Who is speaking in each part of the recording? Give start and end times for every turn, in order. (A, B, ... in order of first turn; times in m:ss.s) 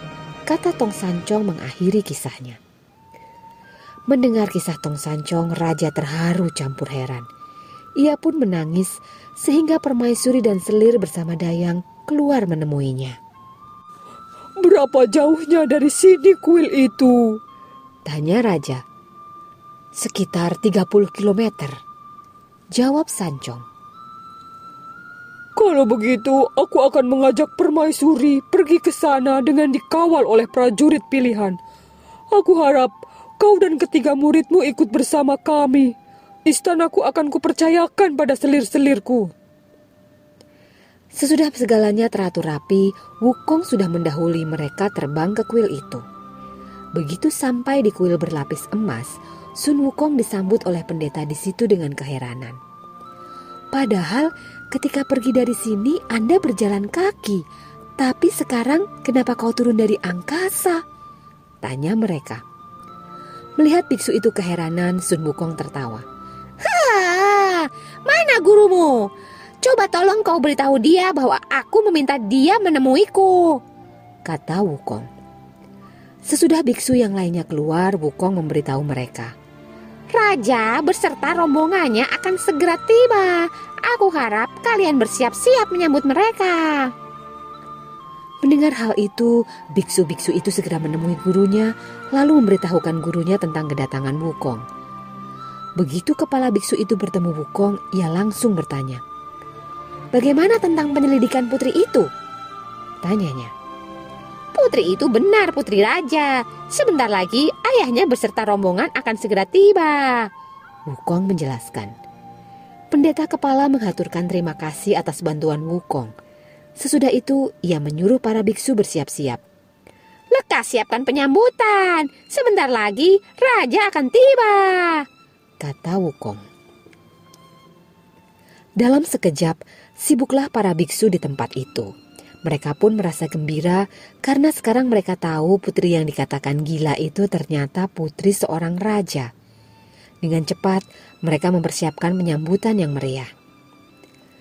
0:00.5-0:02.6 A
0:04.1-0:07.3 A
0:08.0-0:13.2 A
0:14.6-0:17.4 B
0:18.0-0:18.8 A
0:19.9-0:21.8 A
0:22.7-0:23.6 A
0:25.6-0:31.6 B
0:32.3-0:35.9 B
0:36.4-0:39.3 B
0:41.1-0:46.0 A
0:46.9-0:52.6 A
0:53.7-0:57.4 A
0:58.0-1:00.8 A
1:01.6-1:02.4 A
1:03.6-1:06.0 A
1:06.6-1:09.1 C
1:09.6-1:13.6 C
1:14.2-1:15.1 A
1:16.2-1:19.3 A
1:20.1-1:26.9 C
1:28.4-1:34.6 A
1:35.8-1:39.0 A
1:40.1-1:42.1 A
1:43.0-1:43.5 A
1:44.5-1:50.3 C
1:50.9-1:51.9 A
1:52.9-1:56.1 A
1:56.8-1:59.4 A
2:00.3-2:05.0 C
2:05.6-2:06.4 A
2:08.8-2:11.9 A
2:12.4-2:19.3 A
2:20.2-2:23.3 A